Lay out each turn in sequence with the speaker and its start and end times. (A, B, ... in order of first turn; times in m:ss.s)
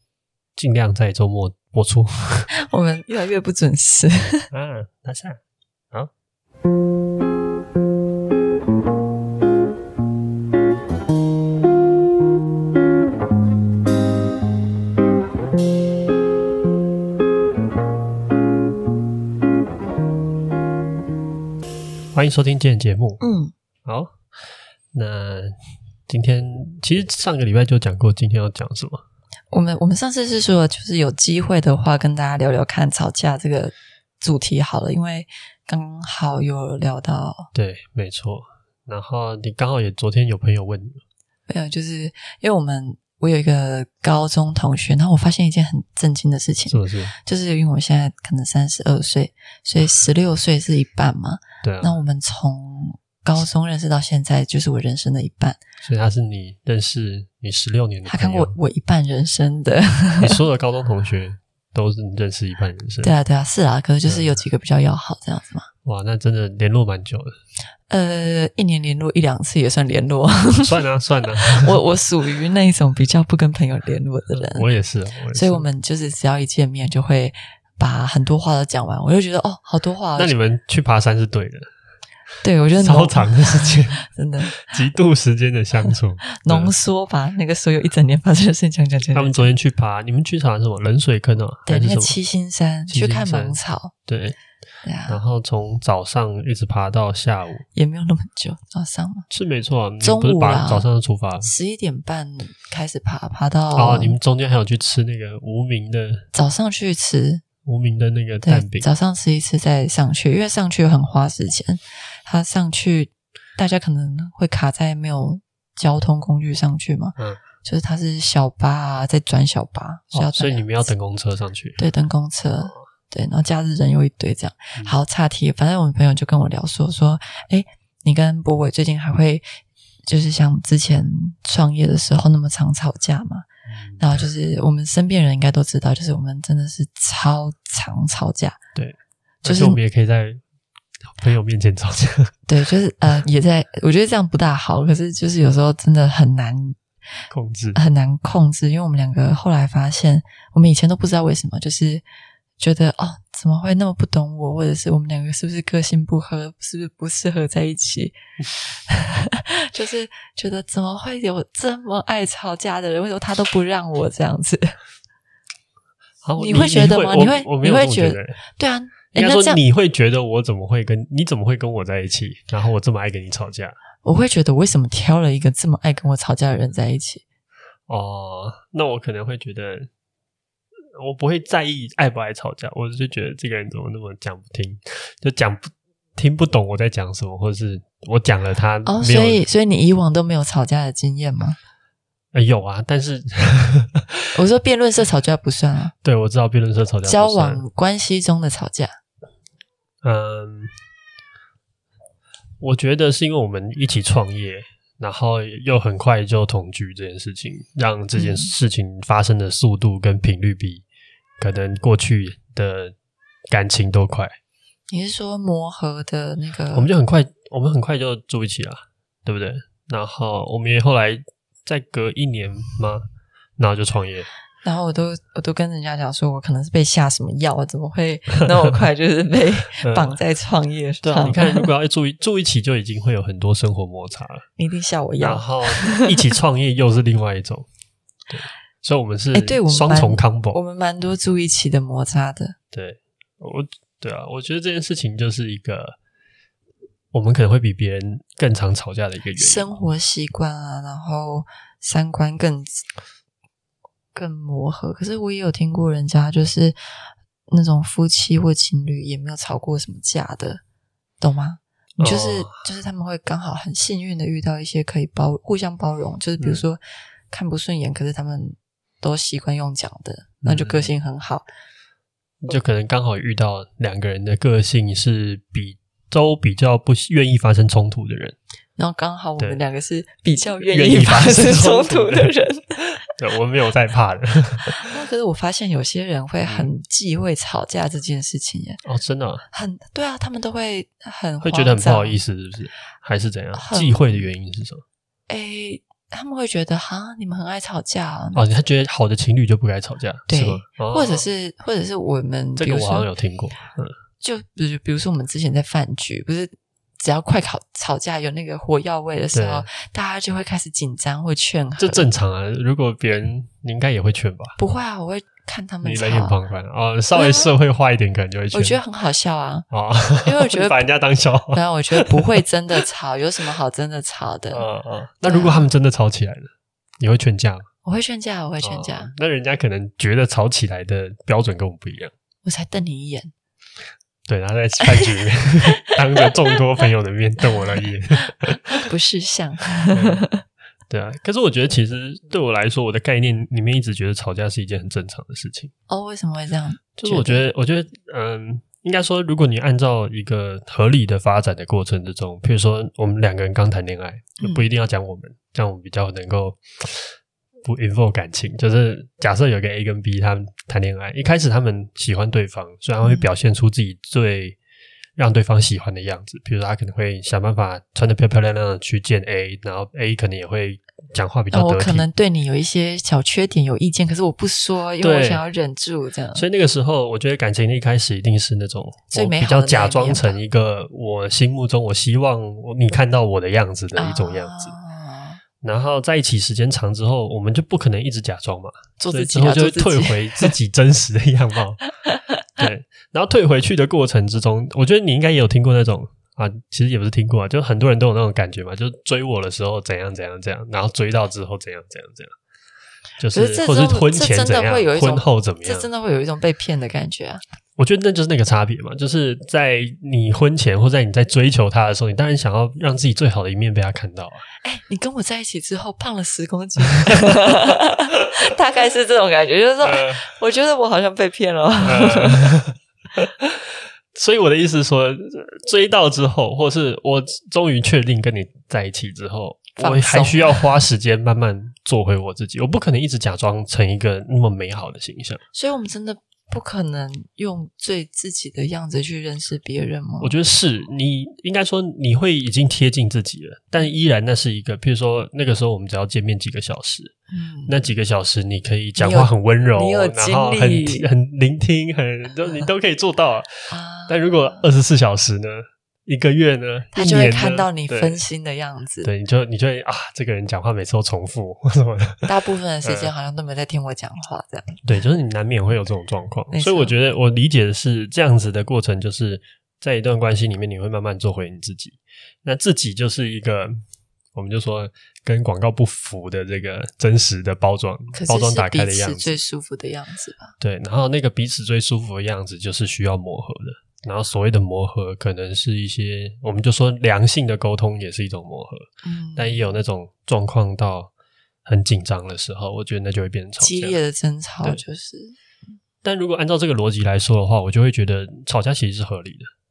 0:00.6-0:02.5 A
0:02.6-0:04.5 B
0:04.5-0:05.4 A
0:22.2-0:23.2 A
0:23.2-0:23.5 B
0:23.9-0:24.1 A
0:24.9-0:25.6 A
0:26.1-0:29.0 A
0:29.5-0:37.5 B
0:37.5-0:41.0 A
0:41.5-0:55.6 B
0:46.7-0:47.1 A
0:51.6-0:51.9 A
0:55.8-0:58.5 A
0:58.1-1:00.4 B
1:00.2-1:03.1 A
1:03.0-1:05.7 B
1:04.0-1:04.4 A
1:05.8-1:07.4 A
1:07.9-1:10.8 B
1:10.6-1:11.8 A
1:11.3-1:14.7 B
1:14.3-1:15.7 A
1:15.3-1:20.3 B
1:20.2-1:21.7 A
1:22.4-1:24.8 B
1:22.8-1:26.7 A
1:26.4-1:29.5 B
1:29.1-1:32.2 A
1:31.7-1:33.9 B
1:32.9-1:34.4 A
1:34.8-1:35.2 B
1:35.1-1:37.6 A
1:37.7-1:39.3 B
1:39.3-1:41.5 A
1:40.0-1:40.9 B
1:41.4-1:44.2 B
1:43.7-1:46.3 A
1:46.3-1:47.4 B
1:47.6-1:48.9 A
1:48.4-2:00.8 B
2:00.1-2:01.8 A
2:01.8-2:09.5 B
2:10.1-2:13.5 B
2:13.7-2:14.1 A
2:14.0-2:18.6 B
2:18.8-2:20.4 A
2:19.4-2:19.8 B
2:21.2-2:22.3 A
2:22.5-2:26.8 B
2:27.3-2:27.8 A
2:27.8-2:32.0 B
2:32.6-2:44.8 B
2:46.2-2:48.4 A
2:46.4-2:49.6 B
2:49.1-2:53.8 A
2:54.0-2:57.2 B
2:57.9-2:59.9 A
3:01.0-3:09.4 A
3:08.9-3:11.6 B
3:12.3-3:14.3 A
3:14.4-3:15.9 B
3:16.0-3:17.6 A
3:17.0-3:19.0 B
3:20.0-3:20.7 A
3:22.6-3:30.8 A
3:28.2-3:28.5 B
3:31.4-3:32.9 A
3:33.5-3:34.3 A
3:34.9-3:36.9 B
3:36.7-3:43.0 A
3:43.6-3:44.3 A
3:44.6-3:51.7 B
3:48.4-3:48.8 A
3:49.8-3:50.2 A
3:51.0-3:54.5 A
3:54.6-3:56.2 B
3:55.2-3:57.7 A
3:58.3-4:00.6 A
3:59.3-4:02.6 B
4:02.7-4:06.0 A
4:07.1-4:09.8 A
4:09.4-4:12.8 B
4:14.1-4:16.8 B
4:17.5-4:20.6 B
4:21.2-4:31.4 B
4:22.0-4:22.7 A
4:30.4-4:30.9 A
4:32.4-4:38.4 A
4:38.8-4:42.8 B
4:40.6-4:44.9 A
4:44.7-4:48.8 B
4:46.4-4:46.7 A
4:48.8-4:49.4 A
4:49.5-4:52.2 B
4:51.4-4:54.8 A
4:53.5-4:54.3 B
4:55.3-4:58.4 B
4:58.4-5:01.3 A
5:00.3-5:03.1 B
5:02.6-5:04.0 A
5:04.2-5:12.1 B
5:09.3-5:09.7 A
5:11.8-5:14.6 A
5:14.6-5:16.4 B
5:15.8-5:18.8 A
5:17.2-5:17.5 B
5:18.5-5:19.7 B
5:19.7-5:22.2 A
5:20.2-5:20.9 B
5:21.5-5:24.7 B
5:24.5-5:27.7 A
5:25.2-5:25.7 B
5:27.8-5:29.1 B
5:28.6-5:32.1 A
5:32.4-5:33.3 B
5:34.3-5:38.9 A
5:34.9-5:35.3 B
5:38.3-5:40.4 B
5:39.9-5:40.3 A
5:40.9-5:45.7 A
5:45.9-5:47.4 B
5:47.0-6:04.6 A
5:54.4-5:54.7 B
6:03.0-6:03.3 B
6:05.2-6:12.1 A
6:11.5-6:16.4 B
6:15.0-6:15.4 A
6:16.4-6:24.7 A
6:19.1-6:20.4 B
6:24.0-6:25.4 B
6:25.6-6:31.9 A
6:29.0-6:30.5 B
6:32.6-6:42.3 A
6:43.2-6:45.9 A
6:43.3-6:47.4 B
6:47.8-6:54.4 A
6:54.6-7:02.5 B
6:57.0-6:57.4 A
6:59.8-7:00.3 A
7:01.8-7:15.4 A
7:09.8-7:10.7 B
7:15.5-7:20.3 B
7:20.2-7:27.1 A
7:27.3-7:27.8 B
7:27.7-7:38.2 A
7:29.0-7:31.1 B
7:33.7-7:34.7 B
7:36.9-7:39.1 B
7:39.0-7:42.3 A
7:42.3-7:44.8 B
7:42.8-7:43.1 A
7:44.8-7:53.8 A
7:46.5-7:47.0 B
7:54.4-7:59.4 A
7:58.1-8:00.6 B
8:00.6-8:11.1 A
8:09.0-8:09.6 B
8:11.7-8:14.0 A
8:13.6-8:15.4 B
8:16.0-8:19.5 A